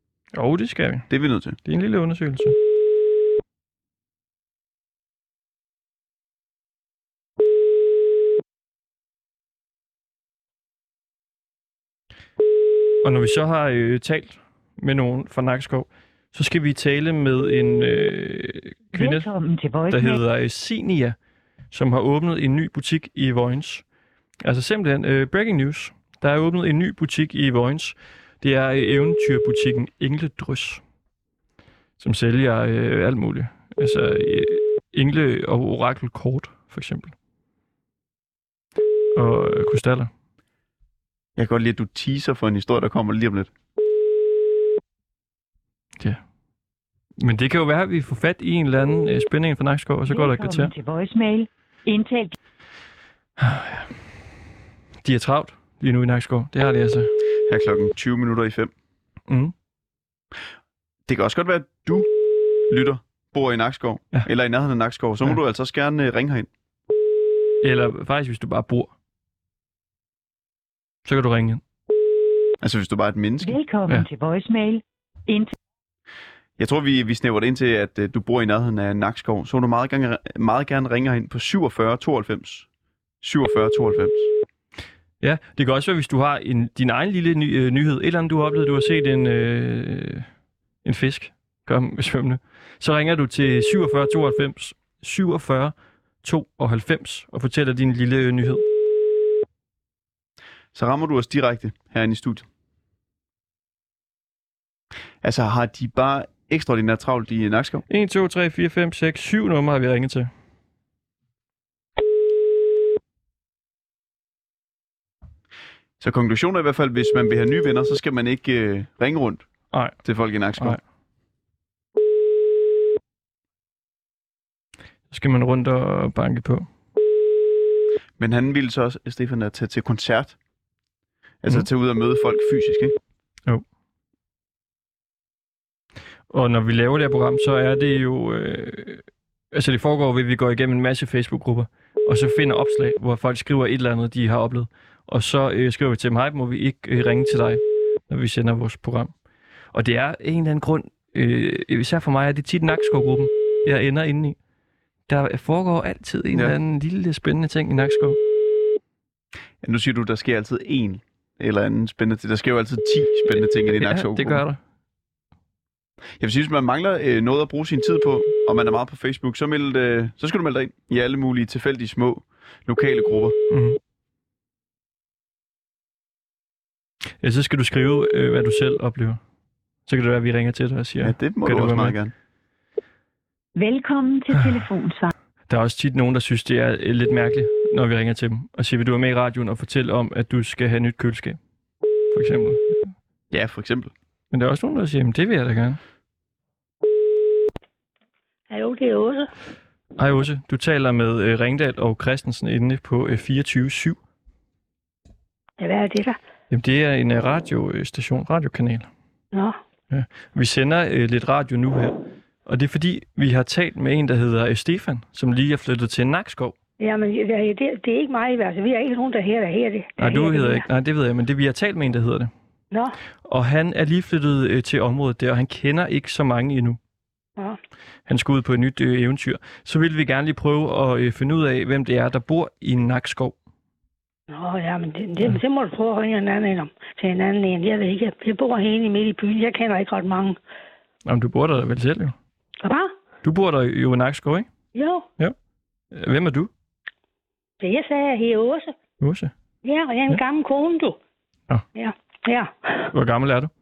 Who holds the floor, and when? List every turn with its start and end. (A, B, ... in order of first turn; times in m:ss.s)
0:00.3-0:02.5 A
0:01.1-0:01.6 B
0:13.0-0:19.3 A
0:18.9-0:20.2 C
0:19.9-0:30.8 A
0:32.0-0:37.1 A
0:39.1-0:40.1 A
0:41.4-0:43.5 B
0:46.0-0:46.2 A
0:47.2-0:50.7 A
0:50.1-0:52.3 C
0:53.4-0:54.2 A
0:55.0-0:57.1 A
0:57.5-0:58.7 B
0:59.3-0:59.5 A
1:01.1-1:02.1 B
1:02.7-1:06.5 B
1:07.6-1:08.9 A
1:11.0-1:11.6 A
1:12.6-1:13.6 B
1:13.4-1:15.5 C
1:16.6-1:22.7 B
1:23.2-1:24.3 B
1:25.2-1:30.3 A
1:30.8-1:38.6 A
1:40.7-1:42.5 B
1:45.2-1:47.8 B
1:47.9-1:50.3 A
1:56.0-2:00.8 B
1:59.7-2:00.8 A
2:05.1-2:06.7 A
2:08.2-2:10.4 B
2:11.4-2:12.9 B
2:16.3-2:29.2 A
2:29.7-2:34.4 A
2:35.1-2:38.2 A
2:39.6-2:44.4 B
2:43.8-2:44.6 A
2:46.2-2:53.3 B
2:53.5-2:53.8 A
2:57.2-2:59.2 A
2:59.8-3:02.0 A
3:01.0-3:02.1 B
3:03.6-3:05.1 C
3:05.5-3:11.4 A
3:12.1-3:12.9 A
3:13.3-3:13.9 B
3:14.3-3:15.8 A
3:18.5-3:19.3 D
3:20.0-3:24.0 A
3:25.6-3:26.2 D
3:26.5-3:28.9 A
3:29.9-3:36.5 A
3:36.8-3:40.7 D
3:40.0-3:42.3 A
3:42.7-3:43.0 D
3:43.2-3:46.8 A
3:48.1-3:53.4 A
3:54.3-4:00.4 D
4:01.0-4:02.1 A
4:02.6-4:02.9 D
4:03.2-4:04.5 A
4:04.7-4:05.0 D
4:05.9-4:06.5 A
4:07.6-4:08.7 D
4:09.0-4:09.3 A
4:09.6-4:11.0 D
4:11.7-4:12.9 D
4:12.9-4:13.5 A